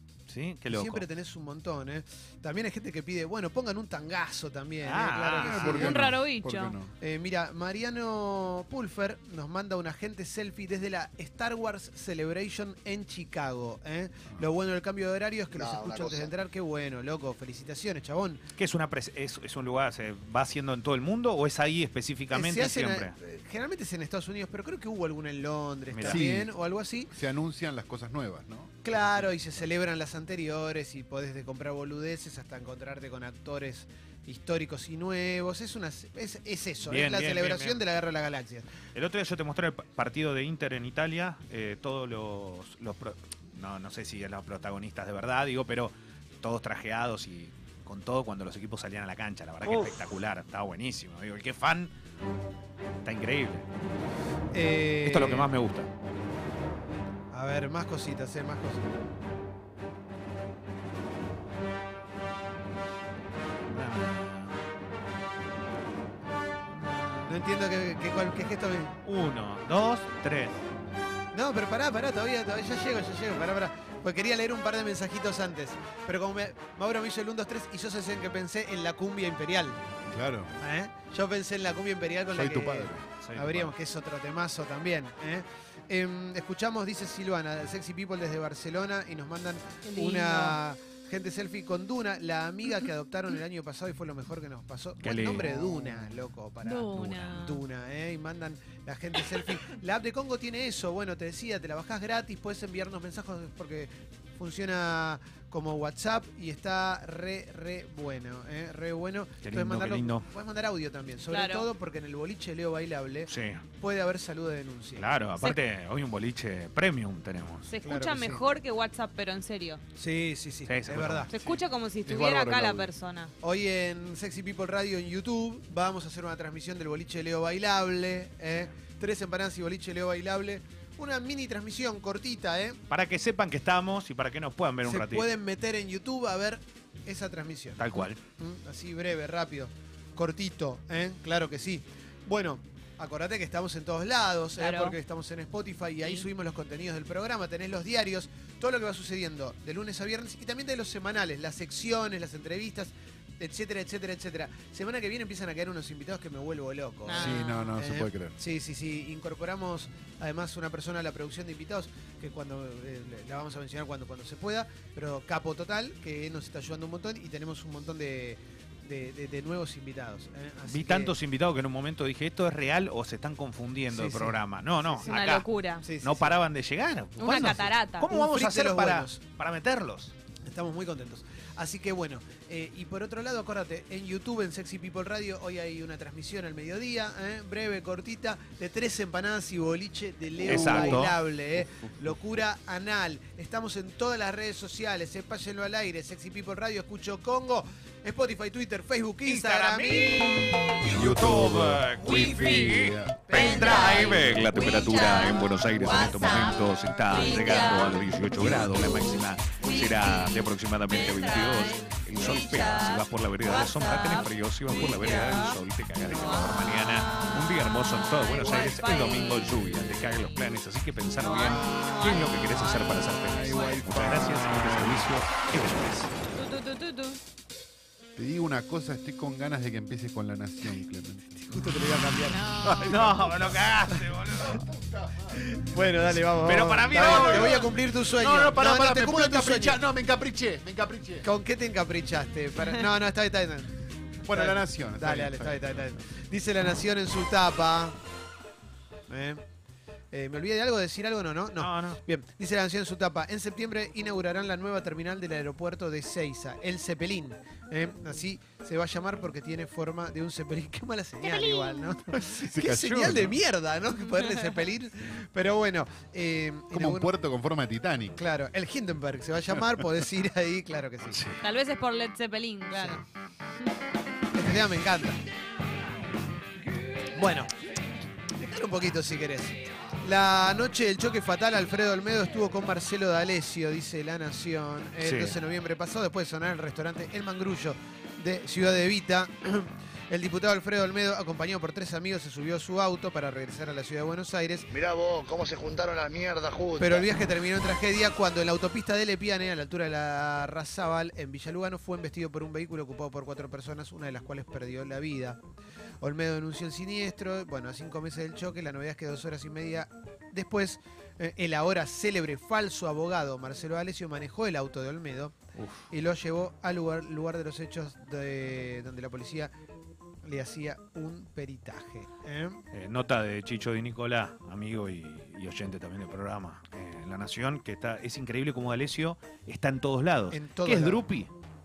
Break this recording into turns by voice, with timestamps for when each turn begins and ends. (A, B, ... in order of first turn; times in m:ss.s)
0:00.3-0:01.1 A
0:00.7-0:06.1 B
0:04.8-0:05.8 A
0:05.4-0:06.9 C
0:05.6-0:06.8 D
0:07.0-0:18.4 B
0:15.5-0:16.3 E
0:18.6-0:23.1 A
0:22.3-0:27.1 B
0:25.9-0:26.2 A
0:26.0-0:26.5 C
0:27.1-0:29.3 C
0:28.8-0:38.7 B
0:36.8-0:37.8 A
0:38.9-0:51.9 A
0:53.0-0:53.7 A
0:54.5-0:55.5 B
0:55.0-0:55.9 A
0:57.3-0:58.9 B
1:03.7-1:04.6 A
1:06.8-1:07.3 A
1:07.3-1:08.9 B
1:09.0-1:10.6 A
1:11.3-1:19.8 B
1:20.1-1:20.5 C
1:20.6-1:55.1 B
1:22.3-1:23.1 C
1:23.2-1:23.7 A
1:29.8-1:30.6 D
1:35.0-1:35.6 A
1:36.6-1:37.6 D
1:49.4-1:50.3 A
1:51.3-1:51.7 D
1:53.3-1:53.6 A
1:55.0-1:57.7 A
1:57.7-1:59.8 D
1:57.8-1:58.5 B
2:00.0-2:01.3 B
2:00.7-2:01.3 A
2:01.3-2:03.3 D
2:01.3-2:02.9 C
2:03.4-2:12.8 B
2:12.9-2:15.3 A
2:14.8-2:17.8 B
2:17.8-2:18.2 A
2:18.4-2:51.2 B
2:24.6-2:25.0 D
2:37.0-2:37.7 D
2:37.2-2:38.4 C
2:50.7-2:55.5 A
2:53.9-2:55.2 B
2:55.0-2:55.8 D
2:55.8-2:56.4 B
2:56.0-3:00.1 A
2:57.2-2:58.1 D
2:57.3-2:59.2 B
3:00.4-3:20.3 B
3:10.4-3:11.2 A
3:10.5-3:11.0 C
3:11.6-3:12.2 C
3:19.2-3:46.1 A
3:20.8-3:24.5 C
3:23.3-3:24.1 B
3:23.5-3:28.1 D
3:29.6-3:37.4 D
3:38.1-3:40.2 D
3:41.2-3:43.8 D
3:43.3-3:45.2 C
3:46.4-3:47.2 D
3:48.2-3:51.4 C
3:51.4-3:52.6 B
3:52.3-3:53.0 D
3:52.6-3:53.7 C
3:52.7-3:54.6 A
3:54.2-3:55.4 C
3:55.3-3:59.8 B
3:56.4-3:57.7 A
3:56.9-4:01.3 C
4:01.2-4:08.0 B
4:04.2-4:06.0 C
4:09.1-4:09.4 B
4:10.1-4:27.1 B
4:11.6-4:12.0 A
4:21.2-4:22.0 D
4:22.2-4:23.4 C
4:24.1-4:24.6 D
4:26.7-4:28.2 C
4:28.2-4:31.2 B
4:29.6-4:29.8 C
4:31.1-4:31.4 A
4:31.4-4:33.0 D
4:32.7-4:33.0 B
4:34.3-4:35.2 B
4:37.1-4:37.5 B
4:38.4-4:54.7 B
4:45.0-4:45.4 A
4:54.7-4:57.1 E
4:56.8-5:05.4 B
5:06.0-5:15.4 B
5:15.6-5:15.9 A
5:15.9-5:19.5 B
5:20.2-5:22.6 B
5:22.7-5:31.3 A
5:30.3-5:31.1 B